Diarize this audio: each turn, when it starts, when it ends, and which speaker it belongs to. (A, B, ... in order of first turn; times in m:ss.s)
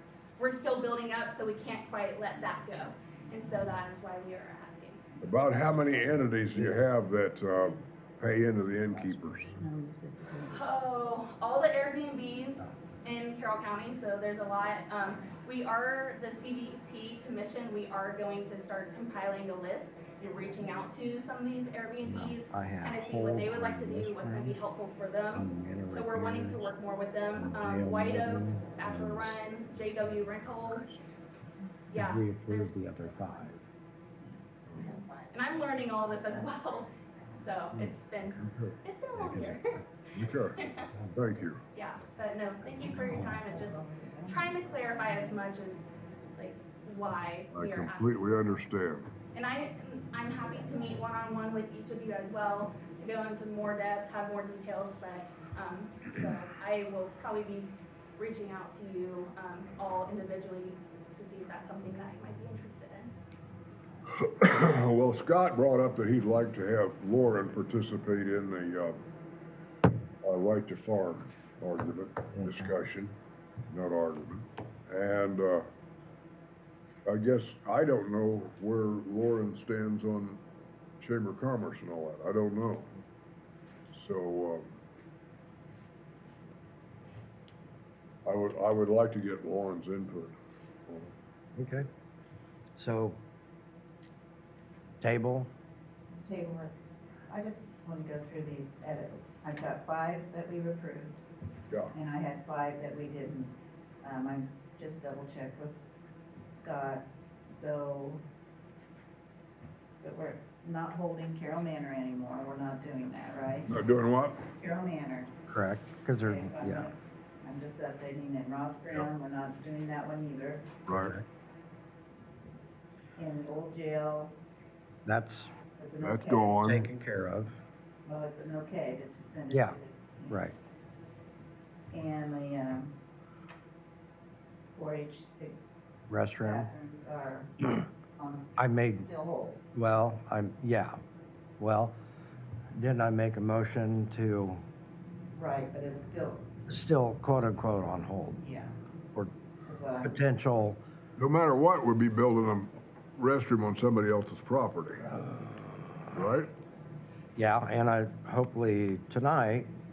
0:00.4-0:05.0 A
0:02.4-0:03.2 B
0:05.2-0:09.6 C
0:06.5-0:06.9 B
0:08.9-0:10.6 B
0:10.5-0:31.0 A
0:22.0-0:24.6 D
0:25.3-0:26.7 D
0:27.3-0:29.4 D
0:31.9-0:33.6 A
0:31.9-0:33.6 D
0:34.2-0:36.7 B
0:34.8-0:39.8 A
0:39.2-0:39.6 D
0:40.1-0:41.6 C
0:40.6-0:40.9 A
0:41.7-0:48.1 A
0:43.2-0:45.4 B
0:47.5-0:49.1 C
0:49.3-1:03.1 A
1:04.2-1:09.0 C
1:10.2-1:13.2 C
1:13.7-1:15.7 C
1:17.1-1:20.4 C
1:21.0-1:22.9 C
1:23.9-1:24.8 C
1:28.2-1:31.1 C
1:31.6-1:31.9 D
1:32.8-1:33.2 D
1:35.0-1:35.5 D
1:36.2-1:36.7 B
1:37.3-1:41.2 B
1:41.7-1:42.0 C
1:41.9-1:45.8 B
1:46.5-1:48.2 B
1:50.0-1:53.8 B
1:53.7-1:54.5 C
1:54.5-1:55.3 B
1:55.5-1:56.9 D
1:56.2-2:00.8 B
2:00.9-2:01.2 C
2:00.9-2:01.2 D
2:03.2-2:04.3 B
2:05.0-2:05.5 D
2:05.8-2:06.8 B
2:06.0-2:06.9 C
2:06.6-2:07.6 D
2:08.1-2:10.4 B
2:09.5-2:09.8 D
2:10.3-2:10.6 D
2:11.9-2:12.9 B
2:14.8-2:15.6 B
2:16.1-2:16.7 D
2:16.4-2:19.6 B
2:18.6-2:19.1 D
2:19.7-2:21.0 D
2:21.6-2:22.0 D
2:22.7-2:24.6 D
2:25.3-2:26.5 B
2:26.7-2:28.4 D
2:28.4-2:28.8 B
2:29.7-2:30.2 B
2:30.0-2:30.8 D
2:31.2-2:35.3 C
2:36.1-2:36.5 C
2:37.4-2:39.7 D